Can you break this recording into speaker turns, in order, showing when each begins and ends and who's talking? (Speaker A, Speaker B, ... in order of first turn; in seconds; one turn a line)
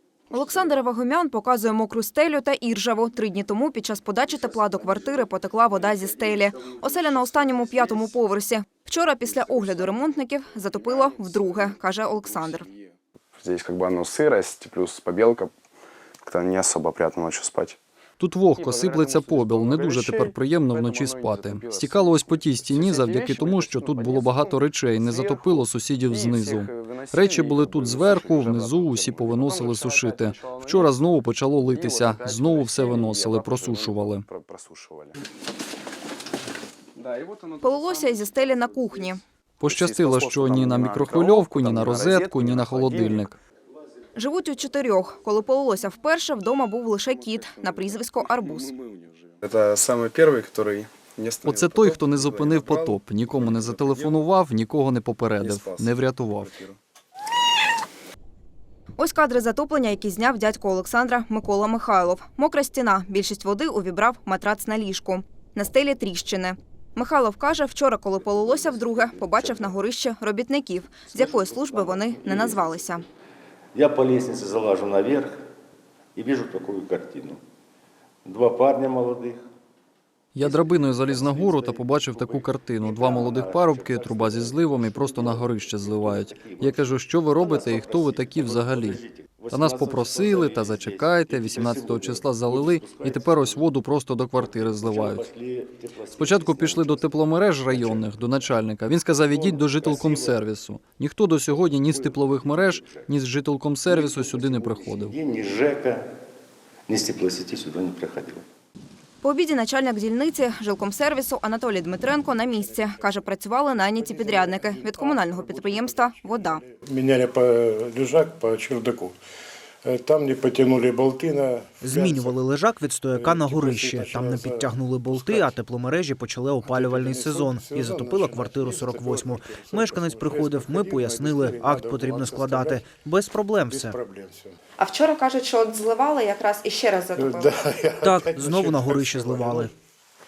Speaker A: 0.3-12.7
Speaker B: 13.4-15.5
Speaker B: 16.2-17.8
Speaker C: 18.2-34.3
Speaker B: 18.5-30.9
Speaker B: 31.6-35.2
Speaker B: 37.0-39.1
Speaker A: 37.6-39.2
Speaker C: 39.6-43.4
Speaker B: 39.6-43.3
Speaker A: 44.1-48.7
Speaker B: 47.1-47.9
Speaker B: 48.5-54.2
Speaker C: 51.4-56.5
Speaker B: 55.4-56.8
Speaker A: 59.0-73.0
Speaker D: 68.2-69.8
Speaker D: 71.1-72.7
Speaker D: 73.7-75.4
Speaker D: 76.2-77.4
Speaker D: 78.2-79.4
Speaker C: 80.3-95.3
Speaker D: 80.4-93.7
Speaker D: 94.4-98.2
Speaker C: 96.2-105.2
Speaker D: 99.2-100.4
Speaker D: 101.6-103.1
Speaker D: 103.8-106.0
Speaker D: 106.9-108.4
Speaker A: 109.2-116.6
Speaker E: 112.4-113.3
Speaker E: 114.0-119.2
Speaker E: 119.8-122.4
Speaker F: 121.8-134.0
Speaker E: 123.1-125.6
Speaker E: 126.6-132.8
Speaker E: 133.7-134.6
Speaker A: 134.8-137.5
Speaker E: 137.2-139.7
Speaker F: 138.0-139.7